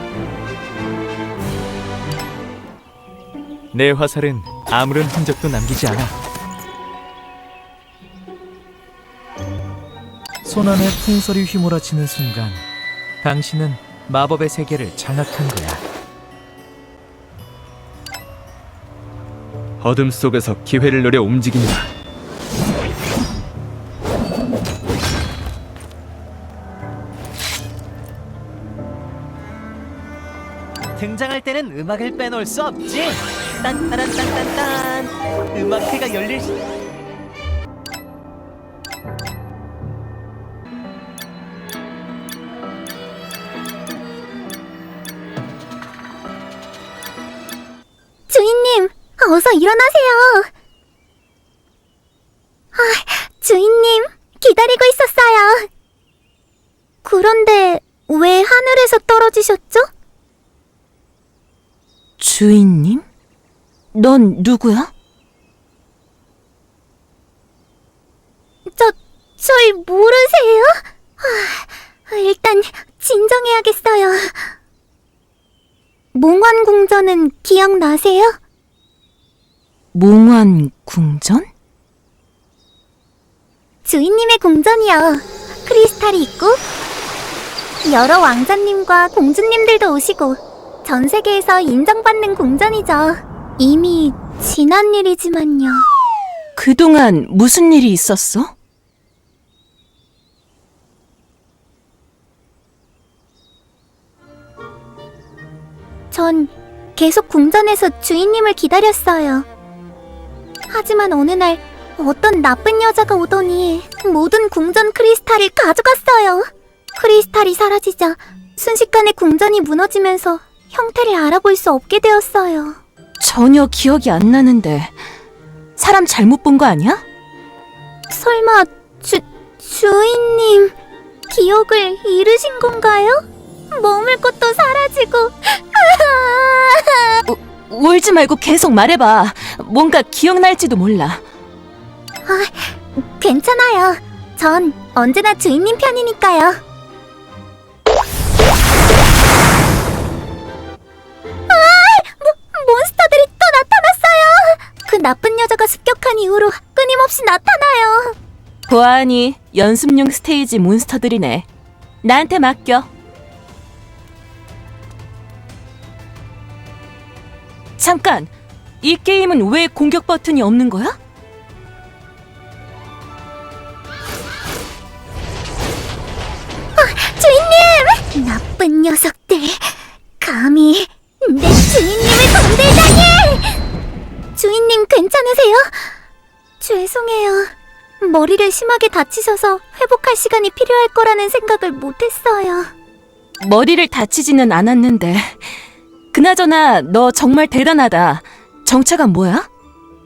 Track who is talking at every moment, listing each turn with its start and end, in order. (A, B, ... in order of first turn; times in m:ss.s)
0:03.7-0:06.2 A
0:03.8-0:04.1 B
0:04.7-0:05.0 B
0:10.4-0:12.6 A
0:13.2-0:15.8 A
0:19.8-0:21.9 B
0:31.0-0:36.6 C
0:48.3-0:50.5 D
0:52.7-0:55.7 D
0:57.0-0:59.9 D
1:02.2-1:03.0 E
1:03.9-1:04.9 E
1:08.7-1:14.5 D
1:16.1-1:18.4 D
1:19.9-1:21.5 E
1:23.8-1:26.6 D
1:27.8-1:35.9 D
1:36.6-1:38.5 E
1:46.1-1:49.5 D
1:50.7-2:02.8 D
2:03.2-2:04.9 E
2:05.8-2:07.0 E
2:08.1-2:10.7 D
2:11.3-2:17.2 D
2:17.3-2:21.2 E
2:22.3-2:26.6 D
2:31.5-2:38.2 D
2:38.7-2:41.5 E
2:42.0-2:42.9 E
2:47.8-2:48.3 E
2:48.8-2:51.0 E
2:56.8-3:03.6 D
3:04.4-3:06.0 D
3:06.6-3:12.7 D
3:13.4-3:15.5 E
3:16.1-3:19.5 E